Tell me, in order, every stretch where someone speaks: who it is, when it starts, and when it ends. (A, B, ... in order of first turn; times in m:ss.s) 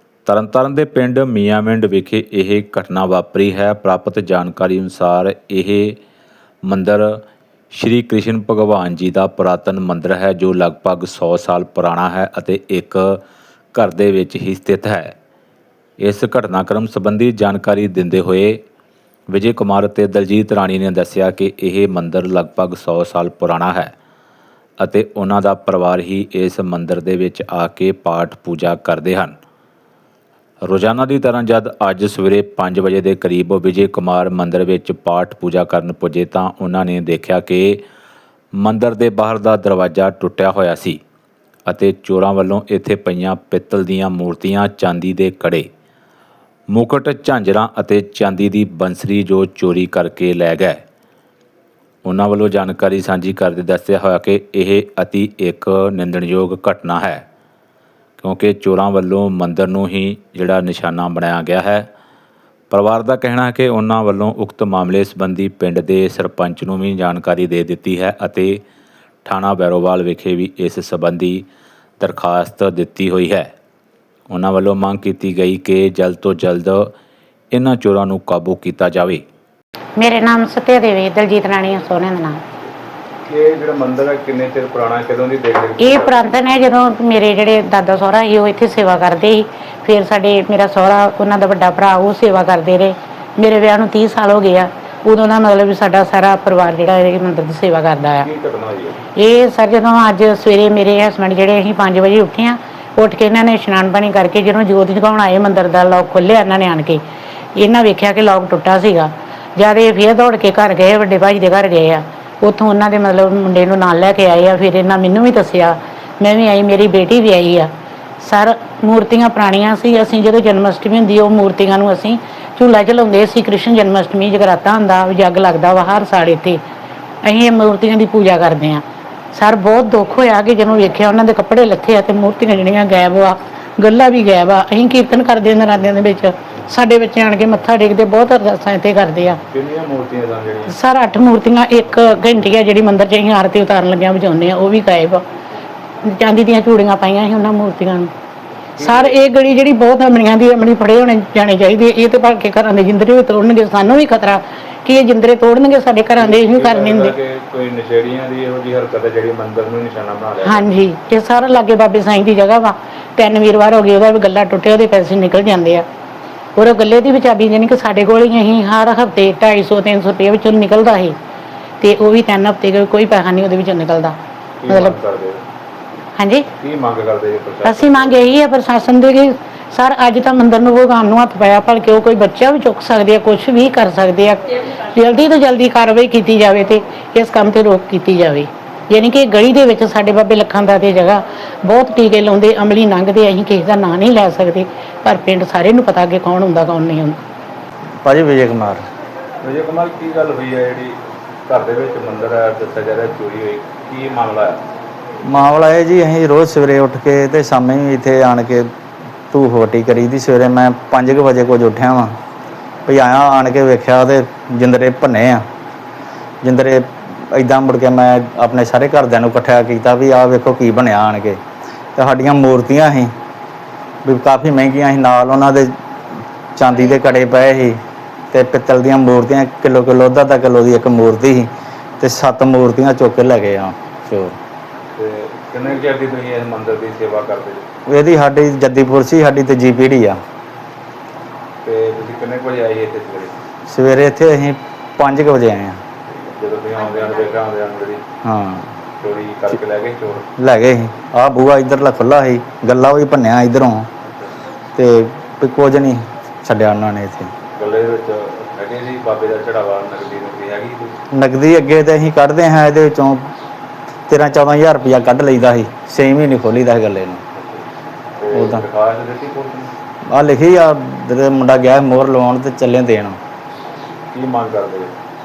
0:00.3-0:06.0 A
0:06.6-0:07.2 A
0:07.7-0:13.2 A
0:13.7-0:15.2 A
0:16.0-0:18.6 A
0:19.3-0:23.9 A
0:24.8-0:29.4 A
0:30.6-0:37.8 A
0:38.6-0:41.0 A
0:41.7-0:45.7 A
0:46.7-0:50.8 A
0:52.0-0:57.2 A
0:58.2-1:01.9 A
1:02.7-1:08.6 A
1:09.2-1:11.5 A
1:12.0-1:13.5 A
1:14.3-1:16.9 A
1:17.5-1:19.2 A
1:20.0-1:22.4 B
1:23.3-1:26.3 C
1:25.8-1:38.3 B
1:38.2-1:39.0 C
1:39.2-1:47.0 B
1:47.6-2:06.6 B
2:07.2-2:19.4 B
2:19.5-2:20.8 C
2:20.7-2:25.2 B
2:26.0-2:28.1 B
2:28.8-2:29.2 C
2:28.8-2:37.2 B
2:36.2-2:40.8 C
2:40.4-2:45.9 B
2:46.6-2:51.2 B
2:51.8-2:54.2 B
2:54.6-2:55.4 C
2:54.7-2:55.0 B
2:56.2-2:56.5 B
2:56.6-2:58.3 C
2:57.6-3:17.2 B
3:18.0-3:18.8 D
3:19.4-3:24.6 C
3:25.2-3:28.7 D
3:29.3-3:32.1 D
3:32.9-3:35.4 D
3:36.4-3:41.4 D
3:42.0-3:43.1 D
3:44.0-3:45.7 D
3:46.6-3:47.8 D
3:48.3-3:51.5 D
3:52.0-3:54.4 D
3:55.0-3:57.6 C
3:57.9-4:00.2 D
4:01.6-4:03.3 C
4:03.7-4:05.8 D
4:06.1-4:08.0 C
4:08.2-4:08.7 D
4:09.0-4:10.3 C
4:10.4-4:13.9 D
4:14.8-4:17.3 D
4:17.6-4:21.0 C
4:21.1-4:23.3 D
4:24.1-4:27.2 D
4:27.4-4:27.6 C
4:28.2-4:29.7 C
4:28.3-4:28.6 D
4:30.1-4:33.2 D
4:34.1-4:34.9 C